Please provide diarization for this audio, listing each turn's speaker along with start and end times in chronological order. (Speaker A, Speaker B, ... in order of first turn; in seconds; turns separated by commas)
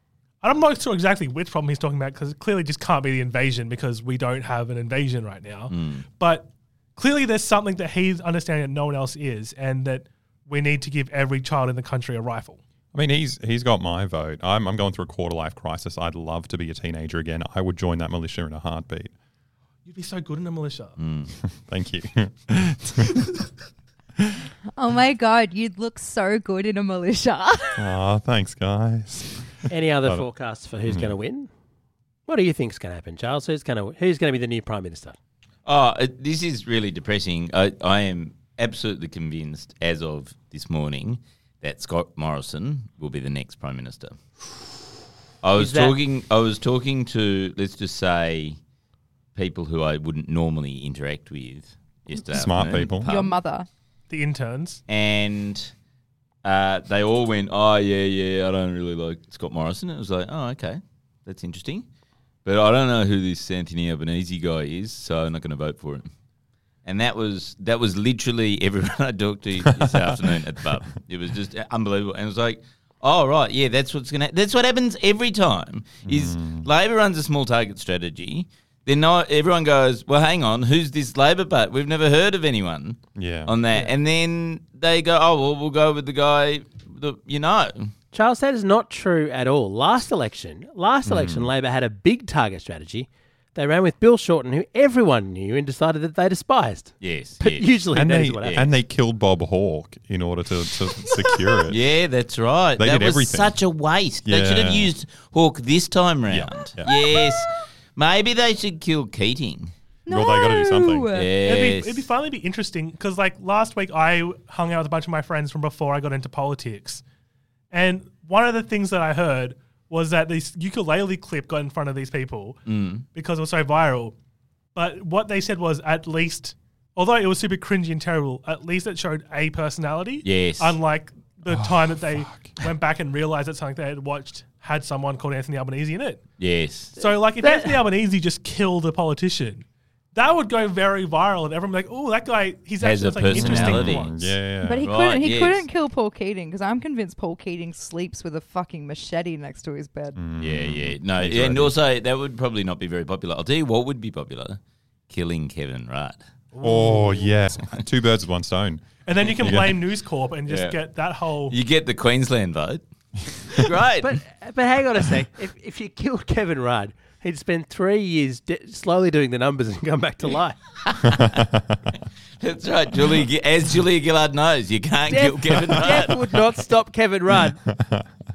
Speaker A: 0.4-12.6, Speaker B: 5.7-6.0, Speaker C: 12.9-19.1, Speaker A: 19.9-20.9, Speaker B: 21.0-21.3, Speaker C: 21.4-23.1, Speaker D: 24.8-27.8, Speaker C: 27.8-29.5, Speaker E: 29.7-31.5, Speaker C: 30.9-31.1, Speaker E: 32.3-35.1, Speaker B: 35.6-44.2, Speaker B: 45.4-48.6, Speaker E: 45.5-46.0, Speaker B: 49.3-53.4, Speaker C: 52.3-53.1, Speaker D: 53.0-53.7, Speaker A: 54.1-54.8, Speaker B: 54.9-55.7, Speaker B: 56.4-61.9, Speaker B: 62.4-66.1, Speaker B: 66.8-87.9, Speaker C: 76.0-76.7, Speaker C: 83.2-83.5, Speaker E: 88.1-98.7, Speaker C: 91.0-91.5, Speaker B: 97.0-97.8, Speaker C: 97.9-101.8, Speaker B: 101.7-109.7, Speaker C: 102.8-103.6, Speaker C: 104.2-104.9, Speaker C: 106.3-106.9, Speaker D: 110.0-111.3, Speaker C: 110.1-111.2, Speaker B: 111.1-112.1, Speaker A: 111.4-117.0, Speaker A: 117.7-122.6, Speaker B: 122.7-123.0, Speaker A: 123.1-124.1, Speaker A: 124.8-136.2, Speaker B: 130.2-130.8, Speaker C: 131.5-132.5, Speaker B: 136.4-137.1, Speaker A: 136.9-139.6, Speaker E: 137.3-137.8, Speaker A: 140.1-144.3, Speaker B: 142.8-144.1, Speaker C: 143.3-144.9, Speaker D: 144.6-150.2, Speaker B: 144.8-145.7, Speaker C: 150.1-151.7, Speaker B: 150.4-154.6, Speaker B: 155.1-156.2, Speaker A: 156.5-157.4, Speaker C: 156.6-158.8, Speaker A: 159.0-161.5, Speaker B: 159.2-159.8, Speaker C: 159.4-159.8, Speaker B: 160.4-162.8, Speaker B: 163.5-164.1, Speaker E: 164.0-170.6, Speaker B: 170.9-171.4, Speaker B: 172.4-176.2, Speaker E: 175.1-177.6